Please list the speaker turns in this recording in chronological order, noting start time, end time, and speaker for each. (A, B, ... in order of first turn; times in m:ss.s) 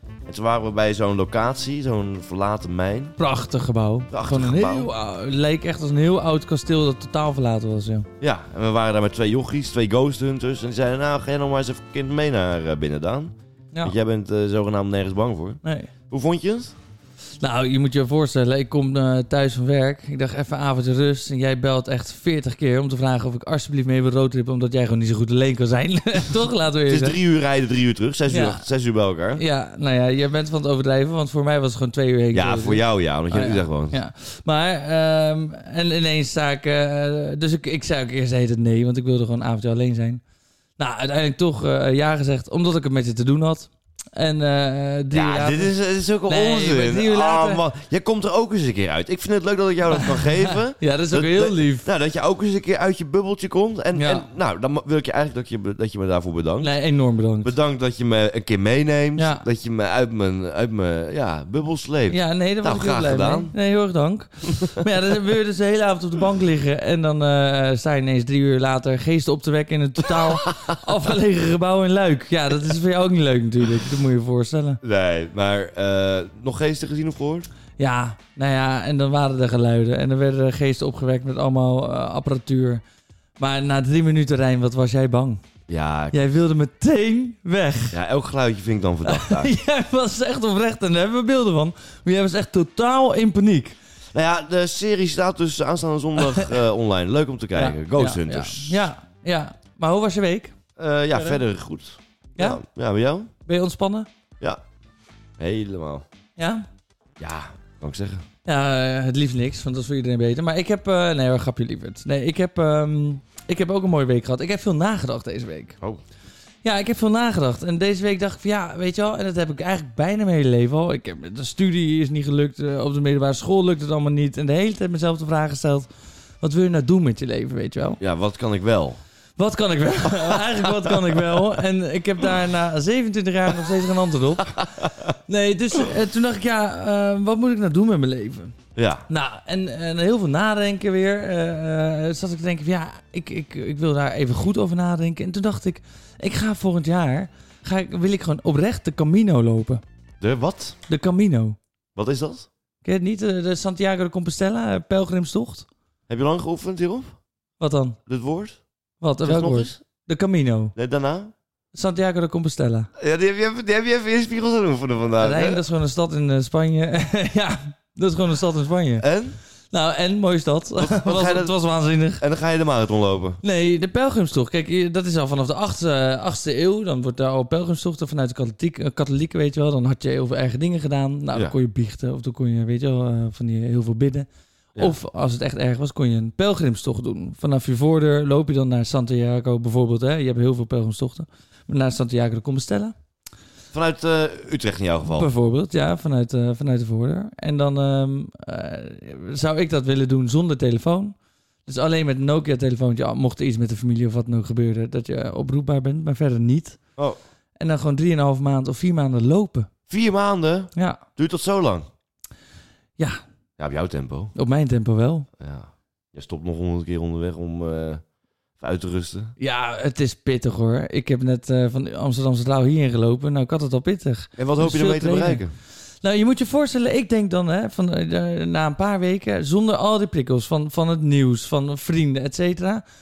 0:00.3-0:03.2 A
0:03.2-0:08.1 B
0:04.1-0:04.9 A
0:08.2-0:16.8 A
0:15.6-0:15.9 B
0:17.4-0:27.2 B
0:26.9-0:29.4 A
0:28.3-0:28.6 B
0:29.4-0:40.2 B
0:32.3-0:34.0 A
0:40.8-0:45.7 B
0:45.1-0:56.7 A
0:46.3-0:47.6 B
0:49.9-0:51.9 B
0:54.0-0:54.3 B
0:56.6-0:57.5 B
0:57.4-1:03.5 A
0:59.2-0:59.4 B
1:02.1-1:14.8 B
1:10.2-1:10.6 A
1:14.8-1:17.5 A
1:17.8-1:22.8 B
1:23.4-1:25.4 B
1:25.7-1:26.2 A
1:26.1-1:28.0 B
1:27.9-1:29.5 A
1:29.0-1:33.8 B
1:34.1-1:38.9 A
1:36.2-1:36.5 B
1:37.5-1:40.6 B
1:40.8-1:43.3 A
1:41.1-1:41.4 B
1:43.5-1:44.1 B
1:45.4-1:46.0 A
1:46.4-1:46.7 B
1:47.2-1:48.2 A
1:48.4-1:55.8 B
1:56.6-2:08.0 B
2:08.0-2:09.0 A
2:09.4-2:14.6 B
2:10.1-2:11.2 A
2:14.6-2:15.1 A
2:15.3-2:18.5 B
2:18.8-2:19.0 A
2:19.1-2:29.8 B
2:30.2-2:30.8 A
2:30.9-2:31.6 B
2:32.0-2:32.5 A
2:32.8-2:35.7 B
2:36.1-2:37.2 A
2:37.6-2:38.0 B
2:38.1-2:38.6 A
2:39.0-2:40.8 B
2:39.2-2:39.8 A
2:40.8-2:41.3 A
2:41.7-2:42.9 B
2:43.0-2:45.6 A
2:45.2-2:49.1 B
2:49.0-2:49.4 A
2:49.7-2:52.2 B
2:50.8-2:51.5 A
2:52.2-2:53.4 A
2:53.4-3:12.9 B
3:13.7-3:15.3 A
3:15.1-3:21.2 B
3:21.7-3:26.8 B
3:27.6-3:29.7 B
3:29.9-3:31.9 A
3:30.8-3:31.0 B
3:33.6-3:34.3 A
3:34.4-3:35.3 B
3:35.4-3:38.0 A
3:38.6-3:39.3 A
3:39.4-3:45.4 B
3:44.4-3:45.5 A
3:46.0-3:52.8 B